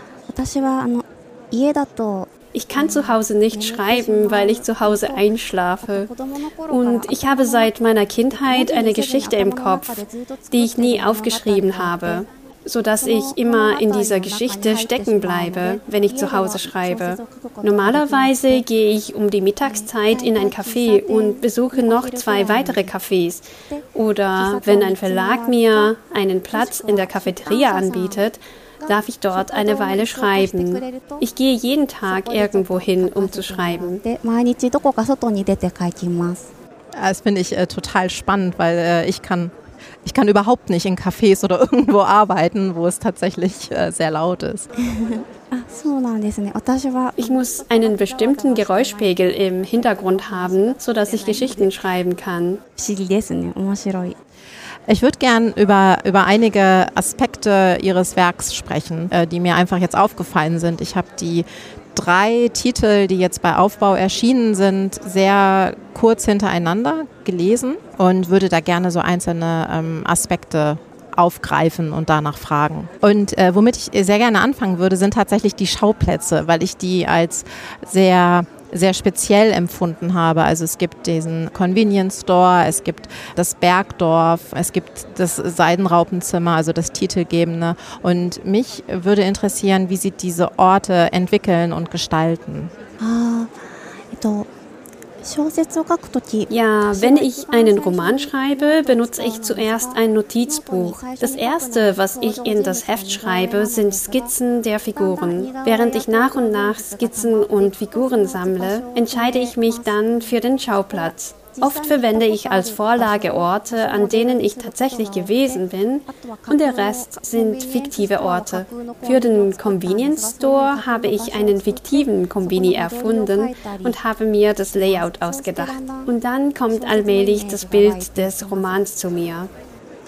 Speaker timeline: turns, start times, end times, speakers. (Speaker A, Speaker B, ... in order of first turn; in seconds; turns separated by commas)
Speaker A: 0.3-5.2, Speaker B: 2.5-6.1, Speaker A: 5.8-7.7, Speaker B: 6.7-34.0, Speaker A: 8.3-12.2, Speaker A: 13.0-18.6, Speaker A: 19.6-22.9, Speaker A: 23.7-25.9, Speaker A: 26.5-28.2, Speaker A: 28.8-31.2, Speaker A: 32.0-36.5, Speaker C: 36.9-39.5, Speaker C: 40.0-44.7, Speaker A: 44.9-51.8, Speaker B: 47.2-52.6, Speaker A: 52.8-54.2, Speaker C: 54.9-92.7, Speaker A: 93.0-93.5, Speaker A: 94.1-94.5, Speaker A: 95.2-104.3, Speaker B: 96.5-129.5, Speaker A: 104.9-110.4, Speaker A: 110.9-124.0, Speaker A: 124.7-126.1, Speaker A: 126.7-128.9